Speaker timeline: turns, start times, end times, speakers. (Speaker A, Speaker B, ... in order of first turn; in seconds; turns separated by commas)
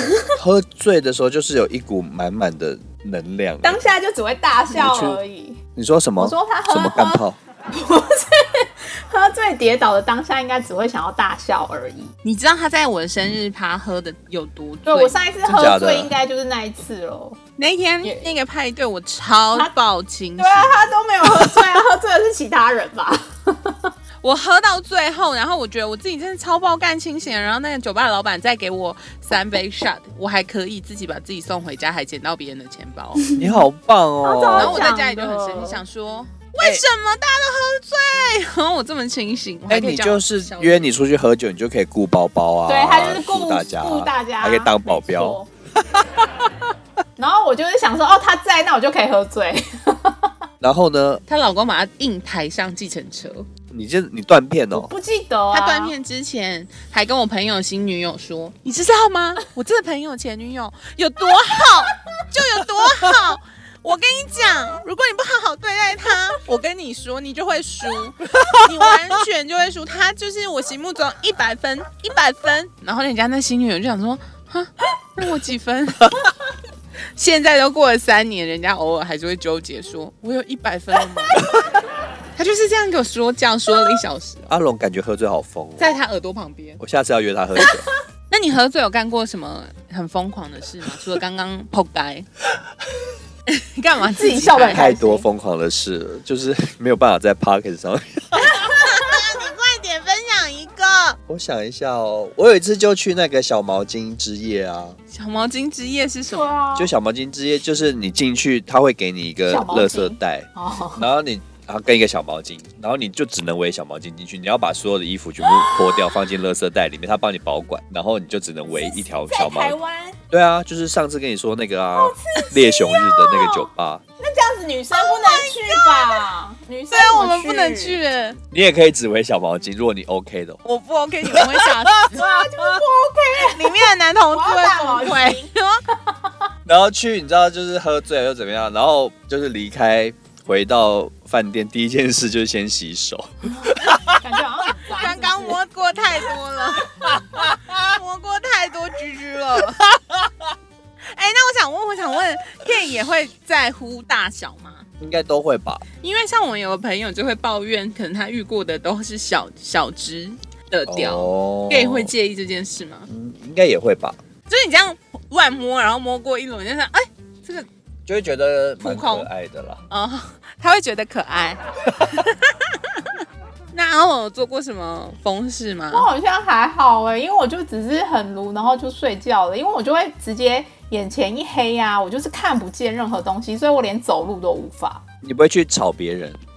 Speaker A: 0.4-3.8, Speaker B: 3.6-5.6, Speaker A: 4.7-5.2, Speaker A: 5.8-7.4, Speaker B: 6.2-12.1, Speaker C: 12.2-15.2, Speaker B: 14.9-17.4, Speaker A: 15.4-16.1, Speaker C: 17.6-20.8, Speaker B: 18.0-18.3, Speaker B: 20.4-23.9, Speaker C: 24.2-33.3, Speaker B: 33.2-33.6, Speaker A: 33.4-34.9, Speaker B: 34.2-35.8, Speaker C: 34.5-40.9, Speaker A: 39.7-45.4, Speaker B: 42.7-45.5, Speaker B: 47.2-50.3, Speaker A: 50.6-51.2, Speaker C: 51.3-53.5, Speaker A: 53.7-54.9, Speaker B: 54.7-55.9, Speaker C: 55.5-76.2, Speaker A: 68.3-68.7, Speaker C: 77.2-81.4, Speaker C: 82.3-84.5, Speaker A: 84.5-86.0, Speaker C: 85.8-86.8, Speaker A: 86.8-87.9, Speaker C: 88.3-92.3, Speaker C: 93.5-94.8, Speaker B: 94.1-95.2, Speaker A: 94.7-98.7, Speaker C: 98.4-101.2, Speaker A: 101.3-105.0, Speaker C: 105.1-106.5, Speaker B: 106.3-106.9, Speaker A: 106.7-119.8, Speaker B: 109.5-111.1, Speaker B: 115.4-116.2, Speaker B: 118.7-120.2, Speaker A: 120.3-124.0, Speaker B: 122.0-123.7, Speaker B: 124.2-128.0, Speaker C: 125.0-126.2, Speaker C: 126.9-128.4, Speaker A: 128.5-130.6, Speaker C: 130.6-132.3, Speaker A: 131.3-132.8, Speaker B: 132.1-136.3, Speaker C: 133.3-135.8, Speaker A: 136.7-144.2, Speaker B: 144.1-145.6, Speaker C: 144.9-149.8, Speaker A: 147.0-147.8, Speaker A: 149.8-150.3, Speaker C: 151.1-154.9, Speaker A: 155.0-155.8, Speaker C: 156.0-163.1, Speaker A: 160.9-162.1, Speaker A: 163.1-164.2, Speaker C: 164.5-167.7, Speaker A: 168.1-169.8, Speaker C: 168.8-169.3, Speaker C: 169.9-173.0, Speaker C: 173.7-176.1, Speaker B: 175.9-185.0, Speaker A: 185.2-186.4